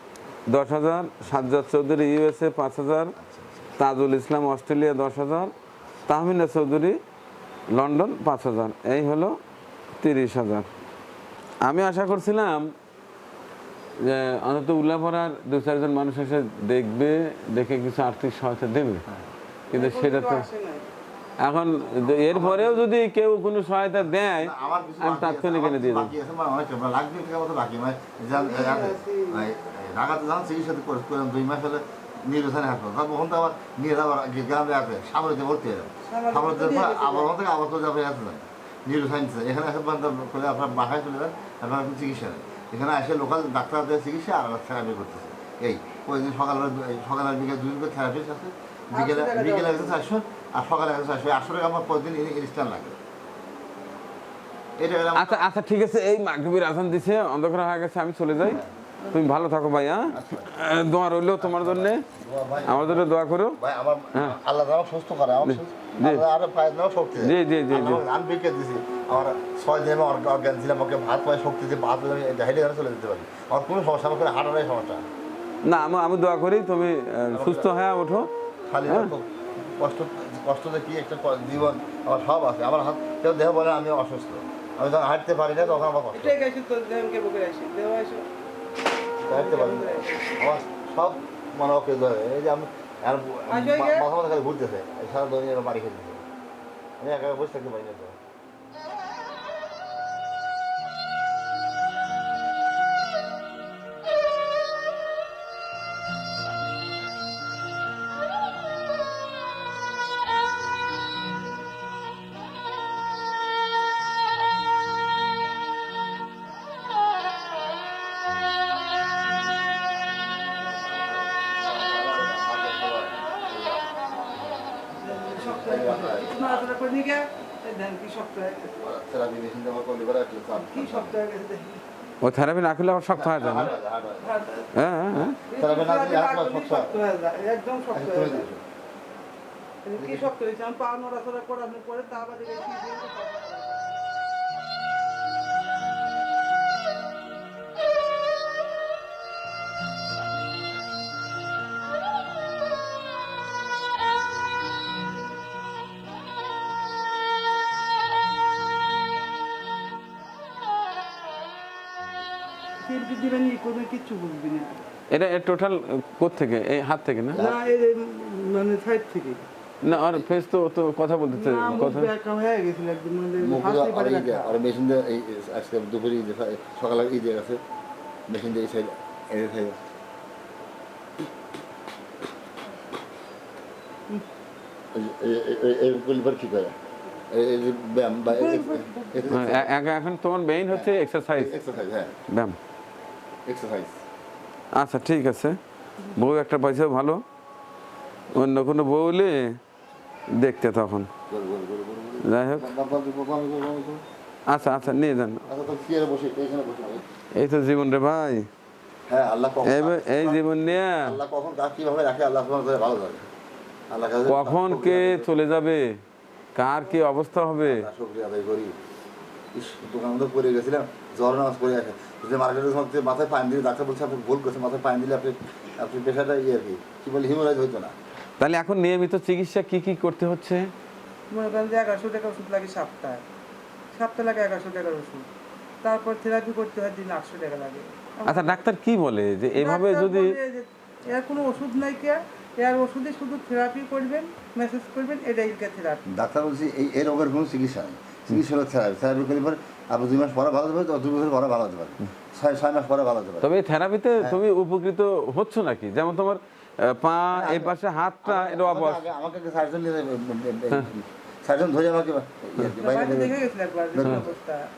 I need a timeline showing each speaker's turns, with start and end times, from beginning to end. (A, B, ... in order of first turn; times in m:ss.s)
0:00.5-0:03.1 A
0:03.2-0:03.7 B
0:03.8-0:05.5 A
0:06.1-0:06.9 A
0:07.7-0:09.3 A
0:10.0-0:10.7 A
0:11.6-0:12.7 A
0:14.0-0:19.0 A
0:19.7-0:20.4 A
0:19.7-0:20.8 C
0:21.4-0:26.1 A
0:22.1-0:22.8 B
0:24.2-0:53.0 B
0:28.3-0:29.5 C
0:36.0-0:37.3 C
0:48.9-0:50.0 C
0:54.8-0:55.5 B
0:55.1-0:58.6 A
0:58.4-0:58.7 B
0:59.1-1:02.0 A
1:00.1-1:00.7 B
1:01.4-1:03.0 B
1:02.6-1:03.6 A
1:03.6-1:15.0 B
1:05.4-1:06.2 A
1:07.2-1:08.0 A
1:15.6-1:18.3 A
1:17.3-1:17.7 B
1:18.7-1:26.4 B
1:18.8-1:19.1 A
1:26.1-1:28.2 C
1:29.2-1:30.4 C
1:29.2-1:36.2 B
1:33.5-1:34.1 C
1:37.0-1:38.2 B
2:00.7-2:04.0 B
2:05.0-2:08.8 C
2:05.2-2:06.6 B
2:08.8-2:11.2 B
2:10.6-2:11.8 C
2:12.2-2:13.7 A
2:13.1-2:14.4 B
2:14.2-2:14.7 C
2:14.7-2:15.4 A
2:15.5-2:18.4 C
2:15.5-2:17.0 B
2:17.9-2:18.6 B
2:19.8-2:23.9 C
2:20.0-2:20.3 B
2:42.8-2:44.8 C
2:45.1-2:47.4 A
2:47.3-2:49.4 C
2:49.8-2:52.1 A
2:51.3-2:54.6 C
2:53.4-2:57.6 B
2:58.3-2:59.8 B
3:04.9-3:06.8 B
3:07.3-3:09.7 B
3:08.3-3:09.4 C
3:09.3-3:11.5 A
3:10.7-3:12.2 B
3:12.3-3:12.6 A
3:13.4-3:14.0 B
3:14.7-3:15.6 A
3:16.1-3:17.2 A
3:18.3-3:19.6 A
3:20.4-3:21.1 A
3:21.3-3:24.0 B
3:22.2-3:22.7 A
3:24.5-3:25.4 A
3:24.6-3:27.0 B
3:27.3-3:28.5 A
3:29.1-3:33.2 B
3:29.6-3:31.2 A
3:33.9-3:35.3 B
3:34.2-3:36.0 A
3:36.5-3:37.9 A
3:37.6-3:38.8 B
3:39.5-3:47.9 B
3:48.4-3:50.7 A
3:51.3-3:53.2 C
3:53.9-3:55.3 C
3:55.8-3:58.6 C
3:58.2-4:00.4 A
3:59.6-4:06.0 C
4:06.1-4:13.5 B
4:13.4-4:19.0 A
4:17.3-4:24.4 B
4:22.8-4:24.7 C
4:24.0-4:24.3 A